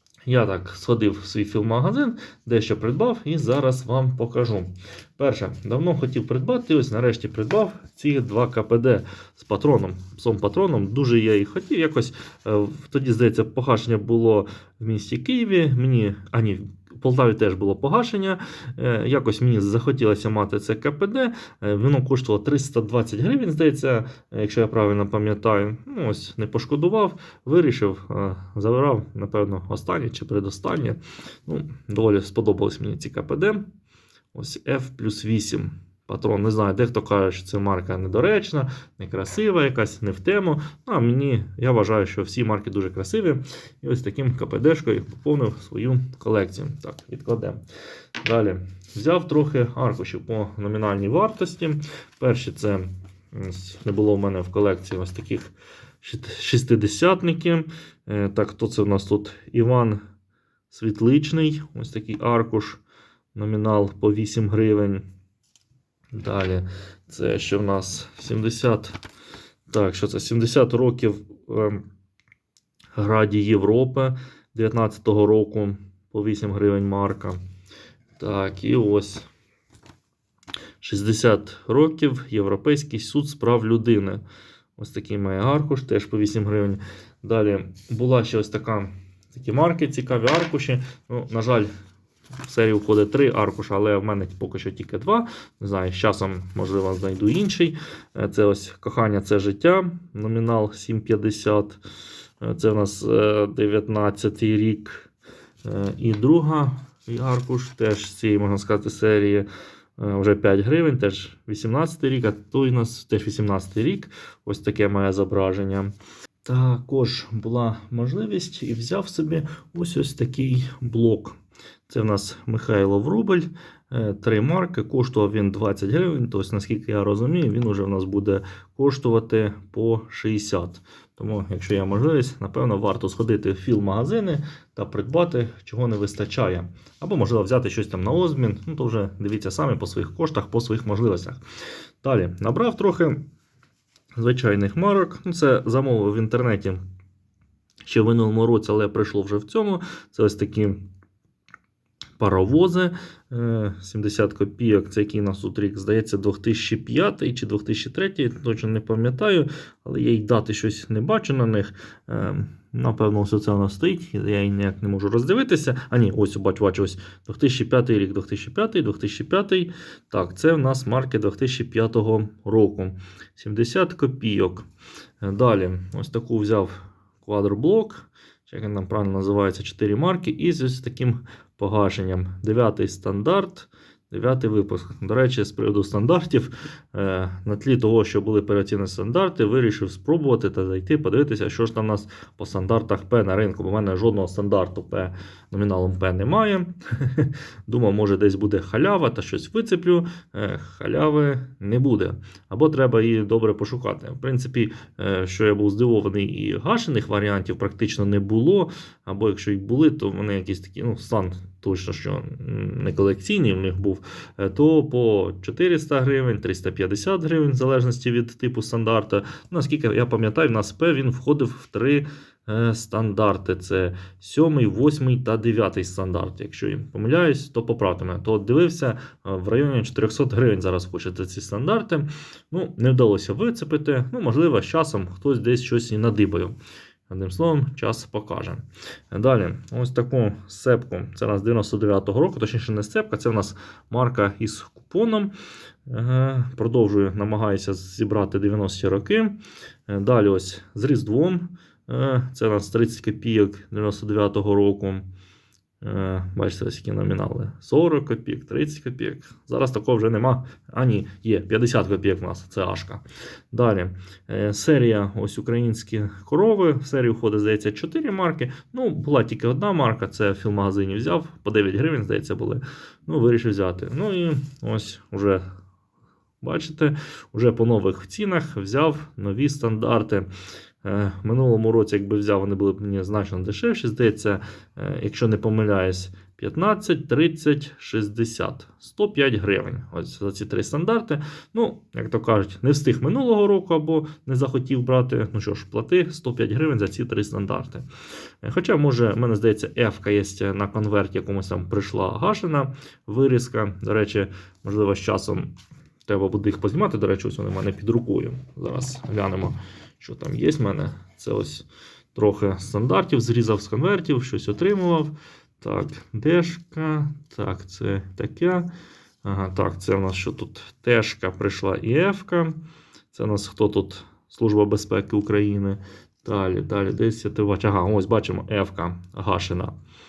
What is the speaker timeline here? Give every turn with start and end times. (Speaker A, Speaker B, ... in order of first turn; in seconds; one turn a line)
Speaker A: 0.3-33.7
Speaker A: 34.3-47.6
Speaker A: 48.2-60.0
Speaker A: 60.7-62.8
Speaker A: 63.4-65.1
Speaker A: 66.1-69.0
Speaker A: 69.7-71.8
Speaker A: 72.9-77.4
Speaker A: 78.2-79.3
Speaker A: 80.8-84.2
Speaker A: 84.8-91.7
Speaker A: 92.5-101.8
Speaker A: 102.4-105.0
Speaker A: 105.6-115.9
Speaker A: 116.5-141.4
Speaker A: 142.0-143.2
Speaker A: 144.2-146.8
Speaker A: 147.9-150.8
Speaker A: 152.2-174.7
Speaker A: 175.2-236.6
Speaker A: 237.1-245.3
Speaker A: 245.9-255.1
Speaker A: 255.8-275.4
Speaker A: 276.4-280.3
Speaker A: 280.8-297.9
Speaker A: 298.4-305.5
Speaker A: 306.1-318.7
Speaker A: 319.2-322.6
Speaker A: 323.1-329.7